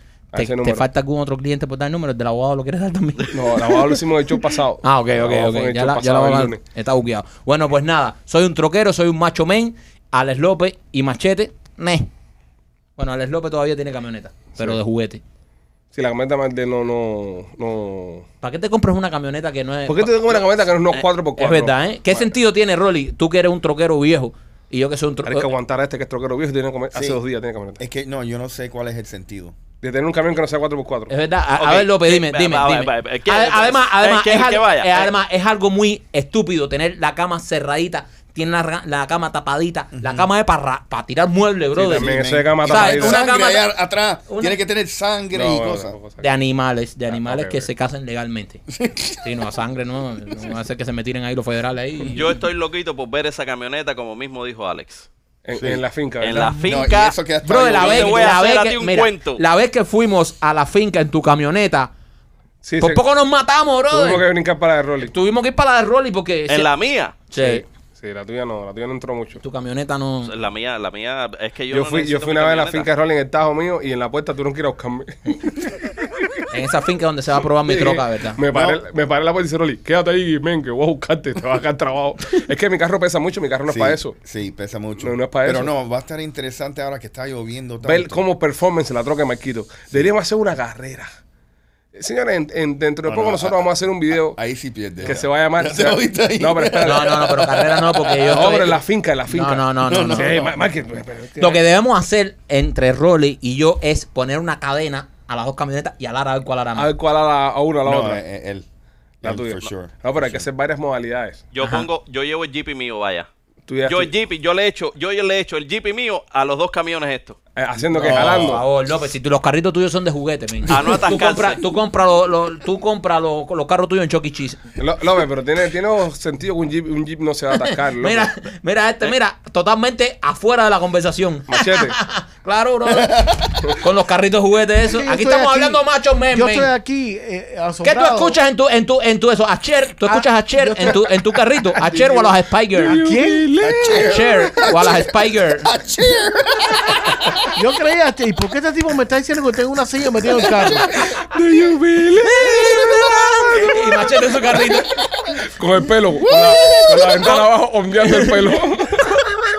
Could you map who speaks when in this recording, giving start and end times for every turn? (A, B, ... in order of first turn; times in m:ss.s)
0:00.3-0:00.9 A
0:00.4-0:04.0 B
0:03.3-0:06.6 A
0:04.8-0:12.1 B
0:13.0-0:15.2 B
0:15.9-0:18.3 A
0:18.4-0:20.4 B
0:19.9-0:22.2 A
0:21.4-0:25.5 B
0:25.3-0:27.8 A
0:26.9-0:27.2 C
0:27.8-0:29.6 C
0:29.8-0:31.1 A
0:31.1-0:42.1 B
0:31.6-0:35.1 D
0:39.9-0:40.3 C
0:41.8-0:43.2 A
0:41.9-0:46.0 C
0:42.6-0:43.7 B
0:44.3-0:44.6 B
0:45.3-0:46.3 A
0:46.2-0:48.6 B
0:47.1-0:47.7 A
0:48.7-0:49.3 C
0:49.2-0:52.4 B
0:52.1-0:55.1 D
0:55.4-0:56.6 A
0:55.5-0:55.8 C
0:56.2-0:57.2 D
0:56.6-0:58.4 C
0:57.4-1:01.9 B
0:57.7-0:59.4 D
1:02.6-1:03.0 A
1:02.8-1:04.2 B
1:03.9-1:05.1 A
1:05.0-1:06.7 B
1:06.5-1:07.2 D
1:07.3-1:07.6 B
1:07.3-1:09.4 A
1:09.4-1:10.3 B
1:10.2-1:12.9 D
1:11.7-1:16.4 A
1:16.5-1:18.4 B
1:17.6-1:24.2 A
1:18.5-1:18.8 C
1:23.7-1:28.2 C
1:25.0-1:25.7 A
1:27.8-1:31.1 A
1:32.0-1:34.4 A
1:33.1-1:38.5 C
1:35.0-1:37.3 A
1:36.8-1:40.4 B
1:38.2-1:41.6 A
1:39.8-1:40.6 C
1:41.4-1:46.9 B
1:46.8-1:48.2 A
1:47.8-1:48.7 C
1:49.2-1:50.5 C
1:49.2-1:51.4 A
1:51.5-1:53.3 D
1:51.6-1:51.9 B
1:53.7-1:54.1 A
1:53.9-1:57.4 D
1:57.6-1:58.6 A
1:57.9-2:04.6 B
1:58.0-1:58.6 C
2:00.7-2:01.6 D
2:04.8-2:08.3 A
2:07.5-2:16.7 B
2:11.5-2:12.0 A
2:12.9-2:13.6 C
2:14.9-2:18.4 E
2:17.8-2:23.0 B
2:20.1-2:21.1 E
2:21.8-2:23.5 E
2:22.8-2:24.3 A
2:23.6-2:27.5 C
2:24.0-2:25.7 B
2:27.6-2:30.9 E
2:30.3-2:30.8 C
2:31.0-2:32.5 A
2:32.4-2:33.8 C
2:32.4-2:35.0 B
2:35.5-2:39.0 A
2:36.5-2:37.5 B
2:38.0-2:38.6 B